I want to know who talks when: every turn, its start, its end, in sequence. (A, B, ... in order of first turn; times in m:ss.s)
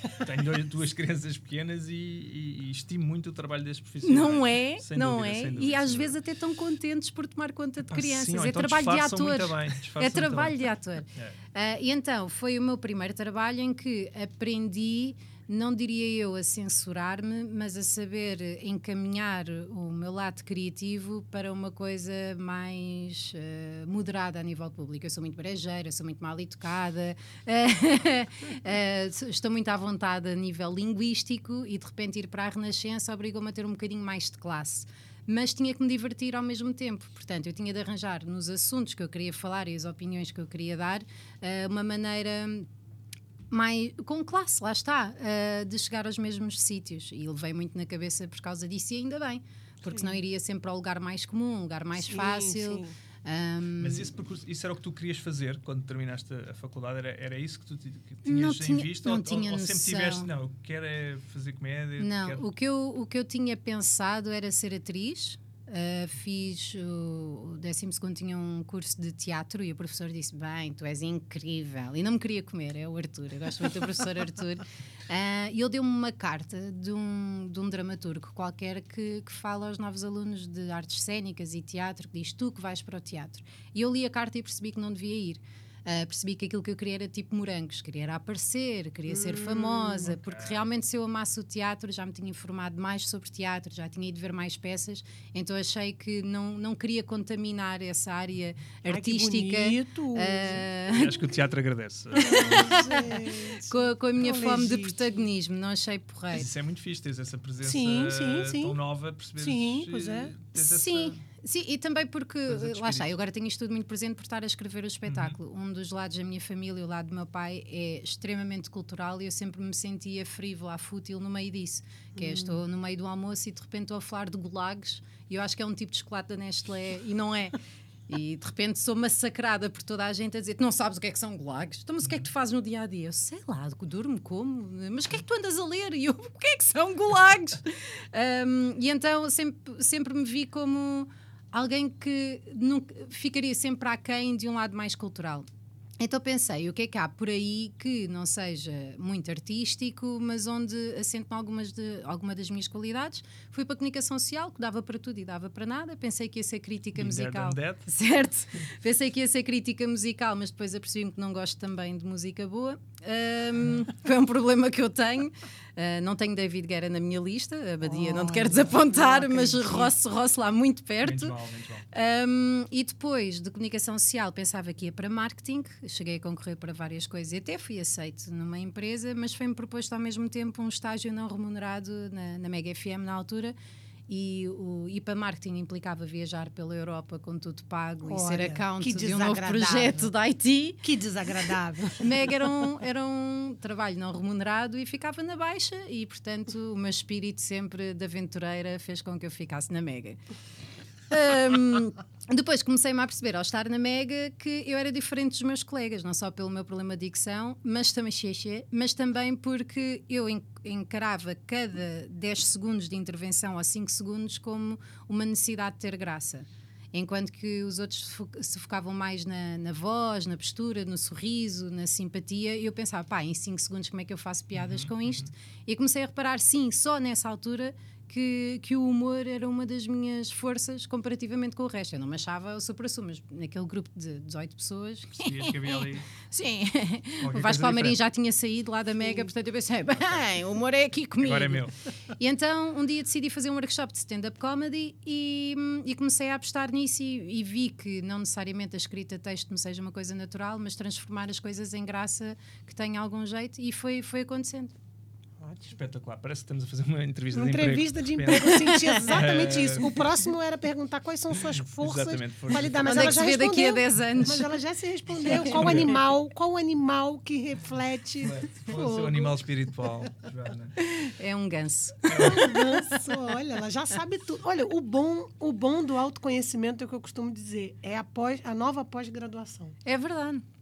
0:00.2-0:06.2 A
0:04.0-0:42.7 B
0:07.8-0:10.6 A
0:43.5-0:54.1 B
0:49.8-0:50.2 C
0:52.0-0:53.0 C
0:53.8-1:02.4 A
0:58.2-1:00.3 B
1:02.0-1:41.2 B
1:29.1-1:30.2 C
1:30.2-1:30.6 A
1:38.8-1:40.7 C
1:40.9-1:43.0 A
1:42.2-1:45.3 C
1:42.2-1:46.5 B
1:46.3-1:51.2 A
1:47.6-1:48.8 C
1:49.4-1:50.3 C
1:50.6-2:07.6 B
1:52.5-1:53.1 A
1:55.0-1:55.4 A
2:02.2-2:02.6 C
2:08.1-2:25.5 B
2:26.0-2:51.4 B
2:37.0-2:37.8 A
2:47.8-2:49.9 C
2:51.0-2:51.9 A
2:51.9-3:03.6 B
3:04.1-3:10.8 B
3:08.0-3:10.1 C
3:10.8-3:12.3 C
3:12.0-3:20.2 B
3:21.1-4:14.7 B
3:44.5-3:45.3 A
3:55.2-3:56.1 A
3:57.2-3:58.0 A
4:01.2-4:01.7 A
4:15.4-4:15.7 C
4:15.7-4:20.1 A
4:17.3-4:29.4 C
4:18.3-4:19.1 B
4:21.4-4:23.3 A
4:22.8-4:24.6 B
4:25.2-4:25.5 B
4:25.3-4:26.0 A
4:28.2-4:30.8 A
4:30.8-4:33.1 B
4:32.1-4:32.6 A
4:32.1-4:39.8 C
4:39.8-4:40.4 B